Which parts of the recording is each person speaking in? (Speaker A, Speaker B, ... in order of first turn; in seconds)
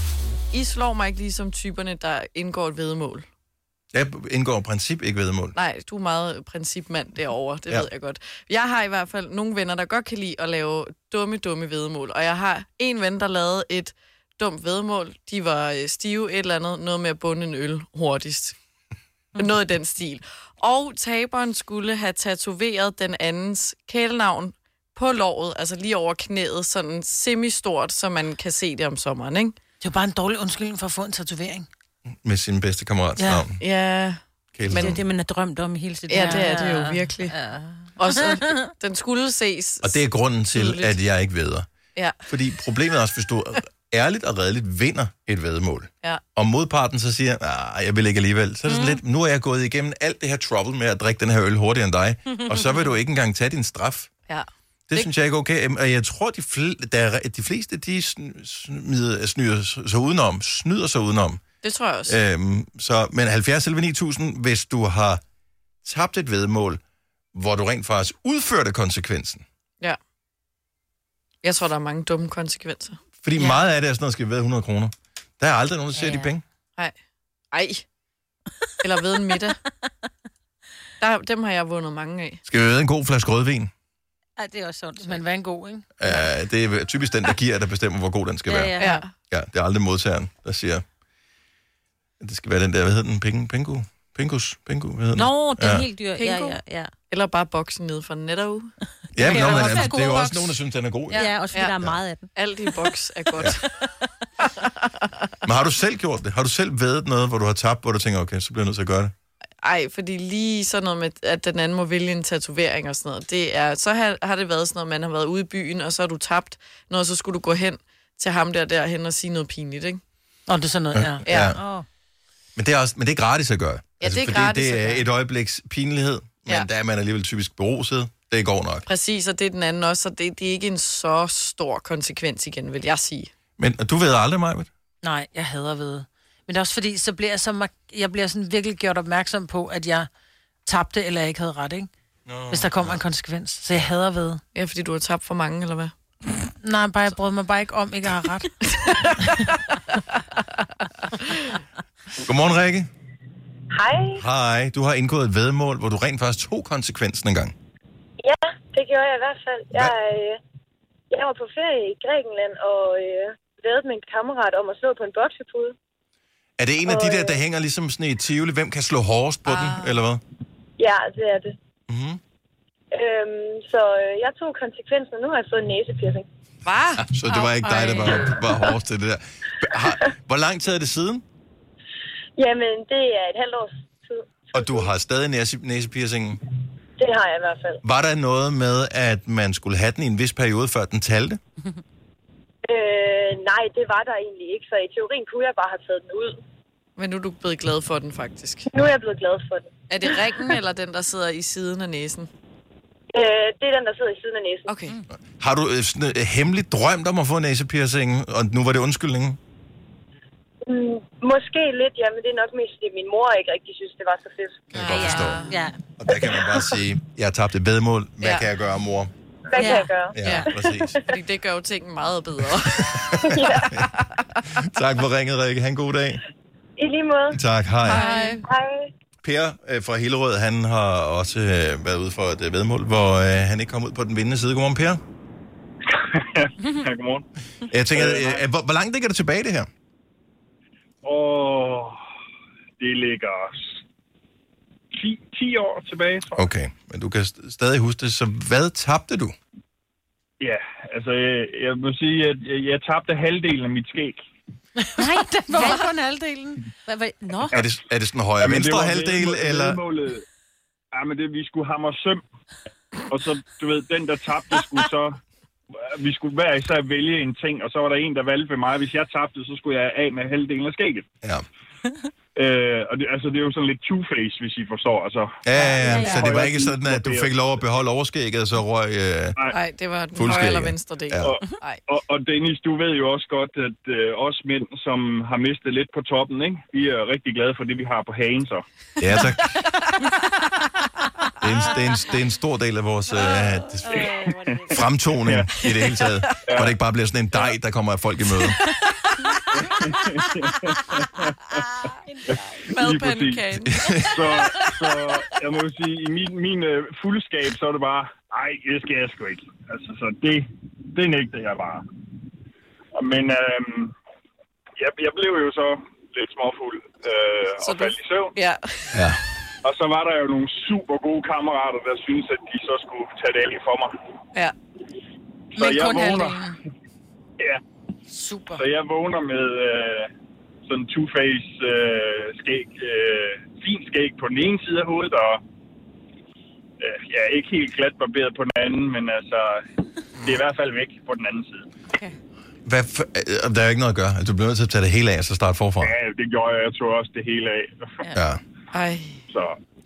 Speaker A: 0.5-3.3, 5.5-18.6, 19.4-29.6, 33.6-35.0, 36.1-37.4, 38.0-41.0, 42.0-42.3, 54.3-55.1, 61.6-62.2, 71.4-73.0, 77.5-77.8, 78.8-79.6, 81.0-82.4, 88.8-89.1, 96.2-98.7, 99.2-100.2, 101.2-101.8, 102.3-103.9, 104.4-105.1, 109.6-120.0, 121.2-121.6, 124.0-125.0, 128.9-133.3, 144.6-145.9, 148.8-149.8, 169.5-169.9, 176.7-177.1, 197.0-198.7, 199.9-202.3, 204.7-205.0, 214.9-215.6, 220.2-224.0, 227.9-228.4, 275.9-276.2, 279.5-281.8, 289.9-290.5, 295.6-296.4, 298.6-301.2, 302.7-304.8, 317.6-319.0, 348.7-349.2
Speaker B: 3.9-5.5, 32.2-33.6, 34.6-35.0, 39.8-41.7, 42.3-54.1, 54.9-61.4, 62.1-65.2, 65.8-66.8, 67.3-69.4, 73.2-76.4, 82.5-83.7, 86.0-90.8, 92.2-95.9, 99.2-101.3, 105.4-109.1, 120.9-121.6, 122.6-128.8, 133.6-134.7, 142.3-142.9, 152.2-152.9, 154.2-157.5, 166.6-170.2, 171.9-172.2, 177.1-181.2, 184.5-186.4, 187.8-191.4, 205.4-209.4, 214.7-219.1, 220.1-221.0, 222.9-223.8, 224.5-226.2, 227.3-228.1, 229.2-235.0, 237.7-239.7, 246.4-249.4, 257.5-259.8, 275.4-279.4, 280.1-281.4, 289.0-289.6, 291.4-298.6, 303.7-304.1, 318.9-319.2, 342.7-345.9
Speaker C: 29.8-31.7, 33.2-33.5, 34.8-36.7, 76.0-76.3, 84.5-86.1, 120.5-121.4, 135.0-140.1, 140.7-141.9, 142.5-144.4, 146.3-148.9, 254.8-256.6, 325.6-326.6, 328.1-328.6
Speaker D: 34.9-38.5, 48.7-49.0, 73.4-73.6, 84.4-85.2, 88.5-89.0, 95.2-96.9, 99.2-100.4, 101.1-102.3, 121.5-121.9, 214.8-215.8, 219.6-219.9, 228.0-228.4, 255.0-256.3, 256.9-257.6, 275.8-276.3, 293.8-294.8
Speaker E: 153.7-154.2, 158.2-160.4, 161.1-165.8, 166.9-167.4, 170.8-171.6, 172.9-176.2, 182.4-184.9, 187.0-187.8, 192.7-196.4, 198.7-199.7, 203.1-204.7, 210.7-215.4, 219.5-221.1, 223.2-223.8, 226.8-227.4, 228.4-228.9
Speaker F: 235.9-237.2, 237.9-238.4, 241.0-242.0, 242.8-243.8, 244.9-246.5, 250.4-254.2, 258.4-260.2, 260.9-262.2, 263.1-265.2, 265.8-271.1, 272.4-277.6, 281.2-288.6, 294.0-295.6, 296.5-296.8, 299.6-301.6, 302.3-303.5, 304.1-311.9, 312.9-313.9, 314.8-318.3, 319.6-323.9, 325.5-326.5, 328.6-330.1, 330.7-335.4, 336.8-339.6, 340.1-341.7, 345.8-348.1, 349.3-349.6